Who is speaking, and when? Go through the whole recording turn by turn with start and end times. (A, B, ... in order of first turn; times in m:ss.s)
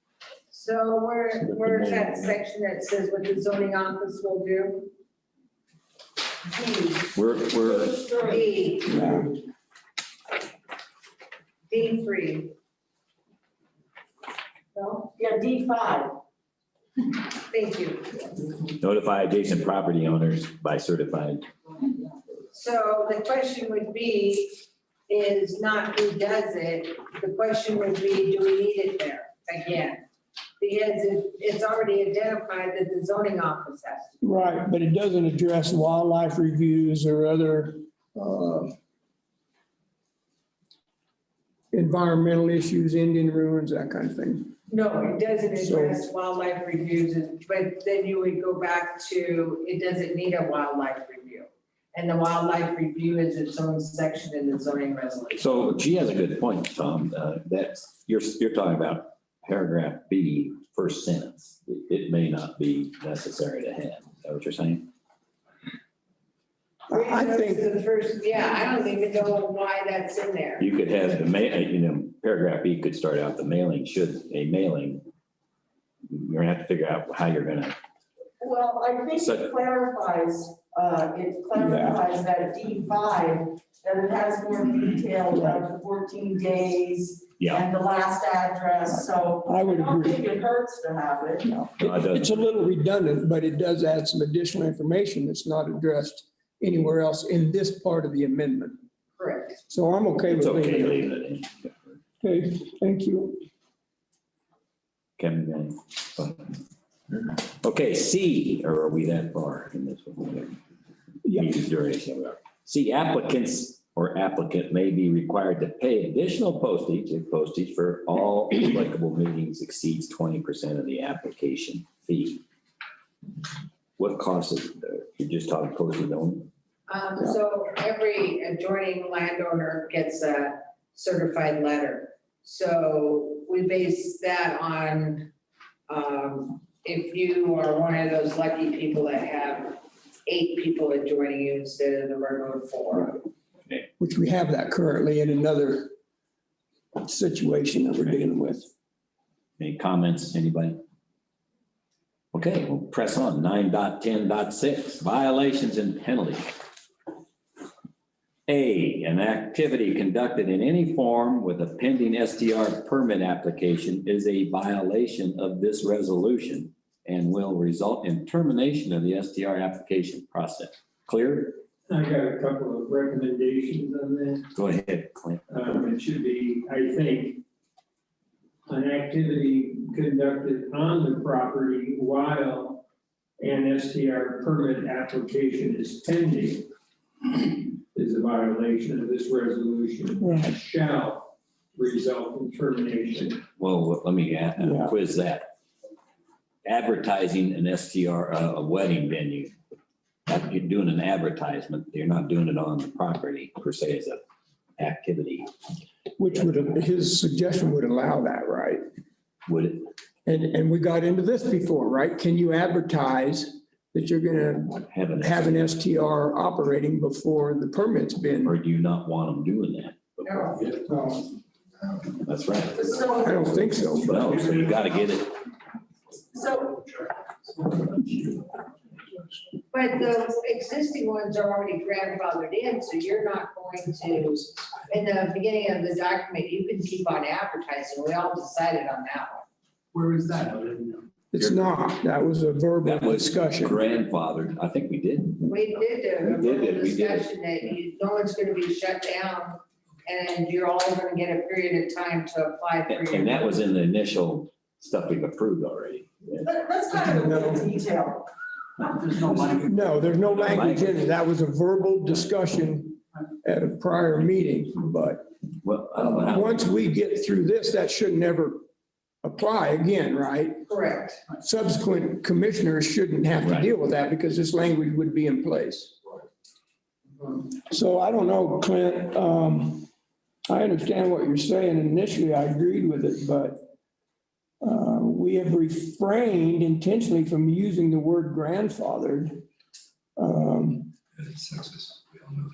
0:00.5-0:04.9 A
0:01.4-0:02.2 B
0:07.1-0:08.0 B
0:07.6-0:08.4 C
0:08.2-0:09.1 A
0:08.9-0:09.3 D
0:11.7-0:12.5 A
0:14.7-0:15.1 A
0:15.1-0:16.1 C
0:17.4-0:18.3 A
0:18.8-0:21.4 B
0:22.5-0:30.0 A
0:30.6-0:34.2 A
0:34.2-0:38.7 D
0:41.7-0:44.5 D
0:44.7-0:55.4 A
0:45.6-0:46.0 D
0:55.3-1:04.9 B
1:06.9-1:07.6 D
1:06.9-1:10.7 A
1:10.6-1:15.0 B
1:16.1-1:17.7 B
1:18.4-1:31.5 C
1:19.2-1:19.6 B
1:21.6-1:22.0 D
1:25.3-1:25.6 D
1:27.4-1:27.7 B
1:28.9-1:30.2 D
1:31.4-1:38.8 D
1:31.8-1:32.3 B
1:39.2-1:39.6 A
1:39.7-1:41.0 D
1:40.3-1:42.0 B
1:42.2-1:43.4 D
1:45.2-1:46.5 B
1:47.5-1:50.6 B
1:51.2-1:51.5 D
1:51.3-2:02.4 B
2:04.0-2:06.5 B
2:06.9-2:15.3 A
2:15.9-2:23.2 A
2:24.0-2:25.9 D
2:27.0-2:28.7 D
2:29.6-2:30.8 B
2:32.3-2:36.5 B
2:38.5-2:51.6 B
2:51.9-2:54.5 E
2:54.5-2:55.4 B
2:55.5-2:57.4 E
2:58.7-3:02.8 E
3:03.4-3:06.6 E
3:07.3-3:13.4 E
3:10.2-3:10.5 D
3:13.6-3:15.4 B
3:14.6-3:14.9 D
3:16.6-3:19.5 B
3:20.3-3:24.2 B
3:24.8-3:25.5 B
3:26.2-3:28.8 D
3:29.4-3:29.8 B
3:30.2-3:38.6 D
3:34.9-3:35.8 B
3:38.4-3:40.7 B
3:40.8-3:41.2 D
3:42.2-3:43.0 B
3:42.8-3:43.5 C
3:43.2-3:44.4 D
3:44.0-3:45.4 B
3:46.3-3:47.0 C
3:49.7-3:59.4 A
4:00.0-4:00.9 E
4:01.3-4:03.8 D
4:02.8-4:05.5 B
4:05.4-4:13.5 A
4:06.2-4:07.3 B
4:12.9-4:16.5 B
4:16.4-4:19.7 C
4:17.0-4:17.7 D
4:19.4-4:25.2 D
4:20.1-4:21.0 B
4:25.6-4:26.9 B
4:26.0-4:28.6 D
4:29.2-4:30.6 D
4:30.7-4:31.2 A
4:31.3-4:36.0 D
4:33.4-4:33.7 B
4:37.5-4:39.9 D
4:40.5-4:43.7 D
4:44.6-4:49.4 D
4:50.2-4:50.9 D